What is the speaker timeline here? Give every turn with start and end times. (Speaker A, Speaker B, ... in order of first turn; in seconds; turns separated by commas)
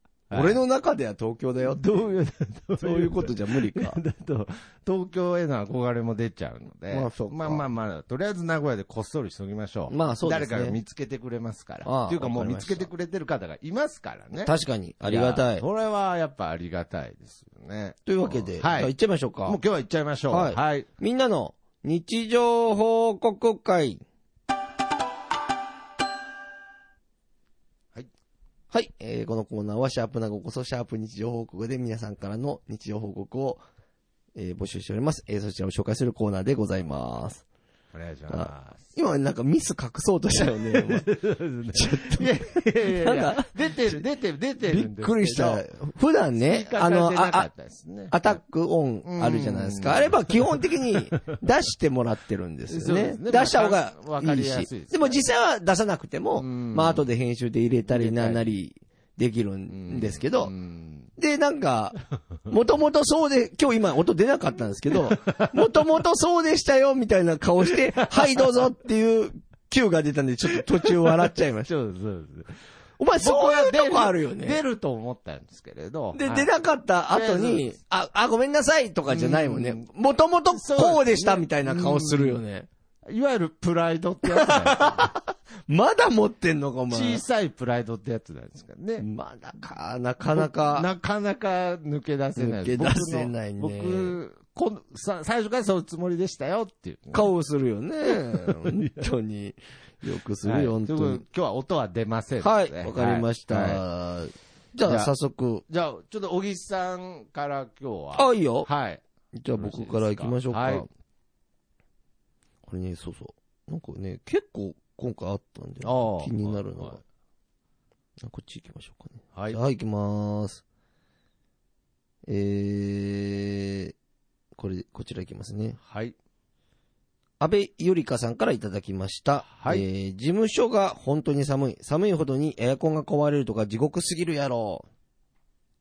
Speaker A: 0.3-0.6, Speaker B: 0.3-2.1, Speaker A: 1.7-14.5, Speaker B: 2.8-4.0, Speaker B: 6.9-7.7, Speaker B: 9.9-10.8, Speaker B: 11.8-12.9, Speaker B: 14.4-15.6, Speaker A: 15.1-18.9, Speaker B: 18.1-19.6, Speaker A: 19.4-20.9, Speaker B: 20.3-24.0, Speaker B: 28.7-33.6, Speaker B: 34.3-37.4, Speaker A: 37.9-38.9, Speaker B: 38.3-41.1, Speaker A: 40.4-45.6, Speaker B: 41.7-44.0, Speaker B: 44.6-47.5, Speaker A: 46.4-48.4, Speaker B: 48.1-60.5, Speaker A: 49.0-51.3, Speaker A: 52.7-55.2, Speaker A: 56.4-57.0, Speaker A: 57.9-58.4, Speaker A: 59.7-61.1, Speaker B: 61.2-71.7, Speaker A: 64.9-65.8, Speaker A: 67.7-68.5, Speaker A: 70.8-72.5, Speaker B: 73.0-74.6, Speaker A: 73.2-76.5, Speaker B: 76.1-82.7, Speaker A: 77.1-77.7, Speaker A: 79.1-79.9, Speaker A: 80.5-82.4, Speaker A: 83.0-85.1, Speaker B: 84.2-87.2, Speaker A: 86.9-89.0, Speaker B: 89.0-90.9, Speaker A: 90.3-97.3, Speaker B: 92.3-94.2, Speaker B: 97.1-101.2, Speaker A: 98.2-99.0, Speaker A: 100.4-103.8, Speaker B: 102.4-105.6, Speaker A: 104.8-105.1, Speaker A: 105.7-109.0, Speaker B: 108.2-108.7, Speaker B: 109.3-110.9, Speaker A: 109.5-110.9, Speaker B: 112.6-117.0, Speaker A: 115.8-117.0, Speaker B: 118.2-120.6, Speaker A: 119.3-119.6, Speaker B: 122.2-123.9, Speaker B: 124.5-125.8, Speaker A: 125.8-126.2, Speaker B: 127.4-134.9, Speaker A: 129.5-129.8